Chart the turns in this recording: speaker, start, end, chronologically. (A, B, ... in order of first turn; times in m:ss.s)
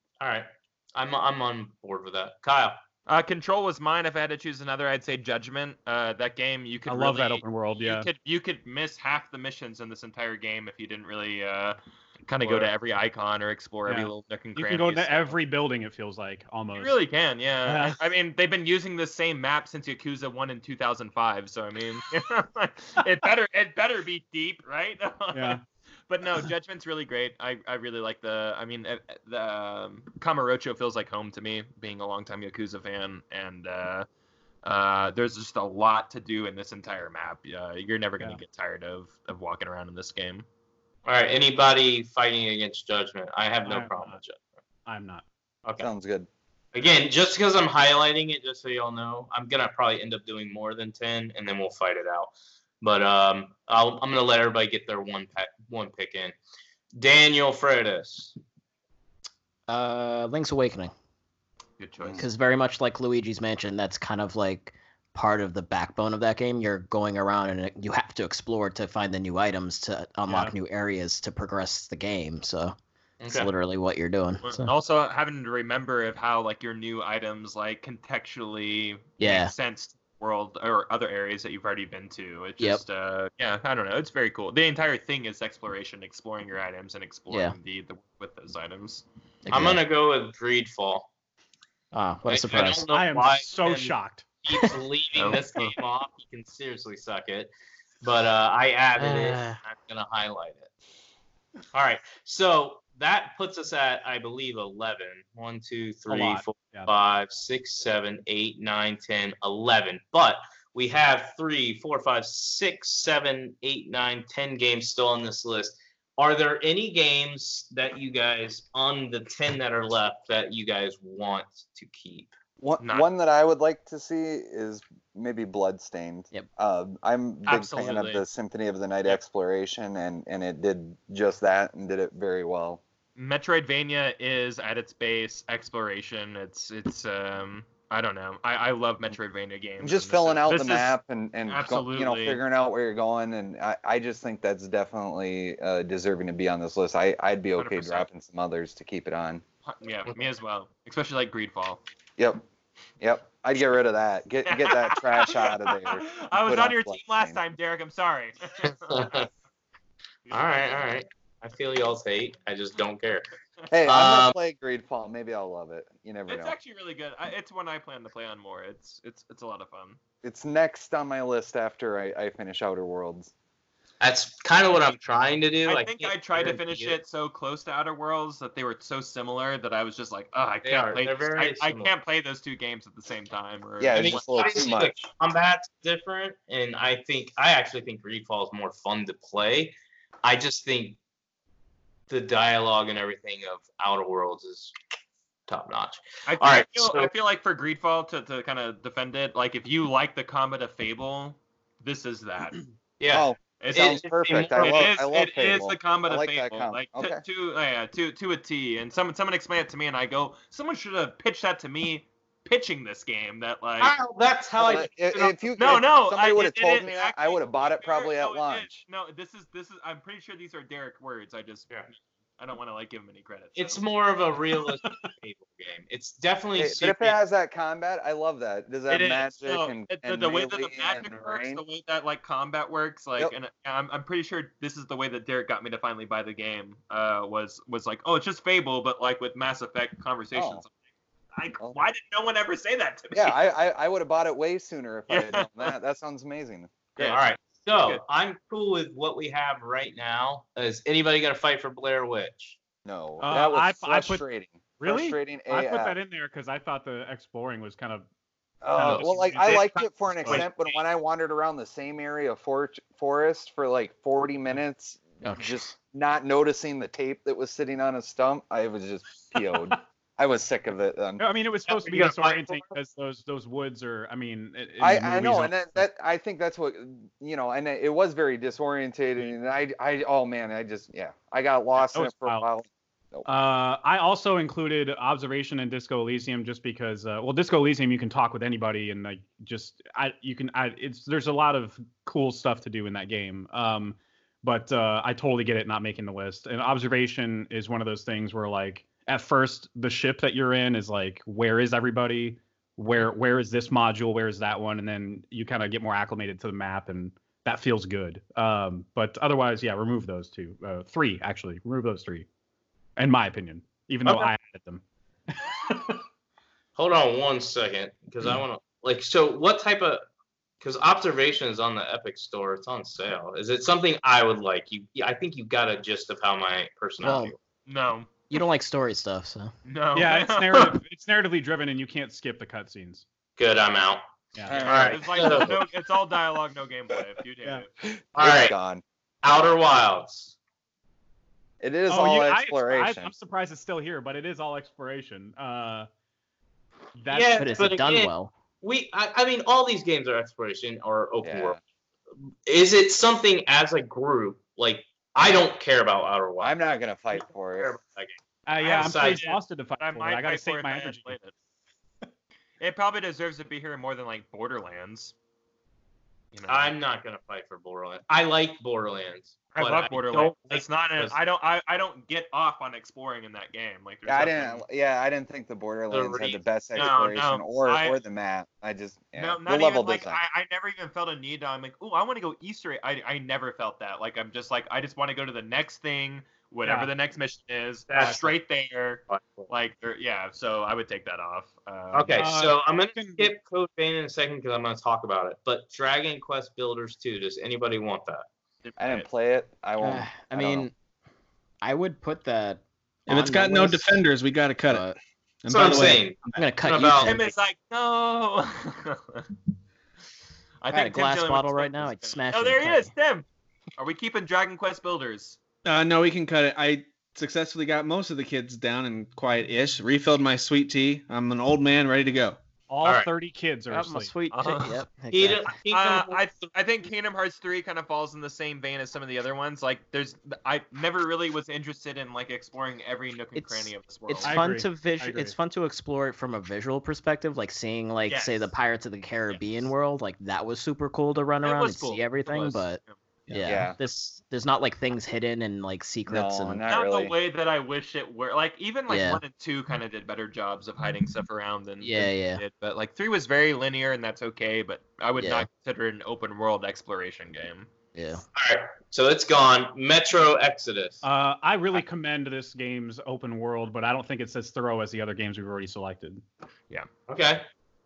0:00.2-0:02.8 A
0:03.1-0:15.4 B
0:06.8-0:08.1 C
0:12.4-0:12.7 C
0:13.9-0:17.0 C
0:16.8-0:34.0 B
0:17.6-0:18.0 C
0:25.3-0:25.6 C
0:34.6-0:40.4 B
0:41.0-0:44.4 A
0:43.6-0:44.2 C
0:44.8-0:45.2 C
0:45.6-0:45.9 A
0:45.8-0:46.3 D
0:46.7-0:56.3 A
0:57.0-0:58.4 A
0:59.7-1:00.9 E
1:01.8-1:02.2 B
1:02.0-1:02.3 D
1:02.2-1:12.7 E
1:10.3-1:10.5 C
1:13.2-1:13.5 A
1:13.3-1:14.7 E
1:14.4-1:29.0 B
1:19.2-1:19.5 E
1:27.3-1:27.6 E
1:29.4-1:29.8 E
1:29.5-1:31.1 A
1:31.9-1:32.8 E
1:32.3-1:40.7 A
1:32.9-1:34.4 C
1:35.1-1:35.7 B
1:39.0-1:39.6 E
1:41.7-2:02.3 A
1:46.1-1:46.9 C
2:02.6-2:12.8 D
2:02.8-2:03.1 B
2:07.4-2:08.2 B
2:13.2-2:20.9 B
2:19.8-2:29.4 D
2:21.5-2:22.4 B
2:27.6-2:28.1 B
2:29.7-2:31.8 B
2:32.2-2:32.4 D
2:33.0-2:37.4 D
2:34.4-2:39.1 B
2:38.6-2:39.3 A
2:40.3-2:40.6 B
2:40.3-2:43.3 A
2:43.7-2:46.5 D
2:43.8-2:44.4 A
2:46.3-2:50.0 B
2:50.2-2:53.3 D
2:54.0-2:57.0 A
2:55.6-3:04.6 B
3:00.6-3:01.9 A
3:03.8-3:05.0 D
3:03.9-3:11.0 A
3:12.1-3:14.7 A
3:15.5-3:17.1 A
3:16.3-3:22.6 B
3:23.0-3:24.9 A
3:23.1-3:27.2 D
3:23.6-3:33.9 B
3:33.8-3:35.8 A
3:34.6-3:38.8 D
3:35.6-3:41.8 B
3:42.4-3:43.8 B
3:43.6-3:47.2 A
3:46.5-3:51.6 D
3:48.9-4:00.7 B
4:00.3-4:00.6 D
4:01.3-4:03.4 B
4:01.6-4:01.9 D
4:03.1-4:07.2 D
4:05.1-4:05.7 B
4:07.0-4:12.6 A
4:12.8-4:16.0 D
4:13.2-4:14.2 C
4:14.8-4:18.0 C
4:18.6-4:31.2 D
4:18.7-4:19.7 C
4:25.2-4:25.7 E
4:31.2-4:35.8 C
4:31.6-4:32.8 A
4:34.8-4:43.3 D
4:41.8-4:42.4 C
4:43.2-5:12.2 C
5:13.0-5:16.0 C
5:14.0-5:14.3 A
5:16.7-5:20.0 A
5:20.6-5:27.4 A
5:27.0-5:27.3 E
5:27.6-5:28.4 B
5:28.3-5:29.5 E
5:29.6-5:30.8 B
5:29.9-5:33.0 C
5:33.4-5:34.0 A
5:34.3-5:34.7 C
5:34.5-5:35.6 D
5:34.6-5:35.6 A
5:34.6-5:37.7 B
5:37.8-5:38.8 D
5:38.2-5:38.6 A
5:39.2-5:40.4 A
5:41.6-5:43.1 D
5:41.9-5:45.9 C
5:47.0-5:47.6 C
5:47.1-5:51.6 A
5:47.4-5:48.3 E
5:51.2-5:51.6 D
5:52.4-5:56.5 A
5:56.4-5:57.7 D
5:57.1-5:59.3 A
5:58.4-6:01.2 C
5:58.6-6:01.3 B
6:02.6-6:05.1 B
6:06.3-6:06.7 B
6:06.5-6:11.2 A
6:09.5-6:14.6 B
6:14.0-6:20.2 D
6:15.9-6:16.8 A
6:16.7-6:18.0 B
6:19.2-6:32.2 B
6:26.6-6:26.9 C
6:27.9-6:28.3 A
6:29.1-6:29.5 A
6:31.9-6:38.2 A
6:32.1-6:33.3 C
6:38.6-6:39.1 B
6:38.8-6:40.7 D
6:39.8-6:40.7 E
6:41.6-6:43.9 E
6:43.1-6:46.4 F
6:44.7-6:45.0 E
6:45.5-6:47.2 A
6:46.4-6:47.3 E
6:47.0-6:49.3 B
6:50.6-6:53.2 B
6:50.7-6:52.9 E
6:53.8-6:55.4 B
6:55.6-7:02.4 F
7:02.7-7:04.1 C
7:03.7-7:05.5 E
7:04.3-7:04.8 B
7:05.1-7:06.4 A
7:05.7-7:14.4 B
7:13.3-7:22.8 E
7:14.2-7:15.3 C
7:18.1-7:18.5 B
7:19.3-7:19.7 B
7:21.4-7:23.0 B
7:23.3-7:26.6 E
7:23.4-7:23.8 D
7:26.1-7:27.1 D
7:26.7-7:37.7 B
7:28.9-7:29.2 E
7:31.8-7:32.4 E
7:35.2-7:35.5 E
7:37.9-7:38.2 E
7:38.4-7:41.0 A
7:41.0-7:46.2 C
7:47.1-7:47.4 A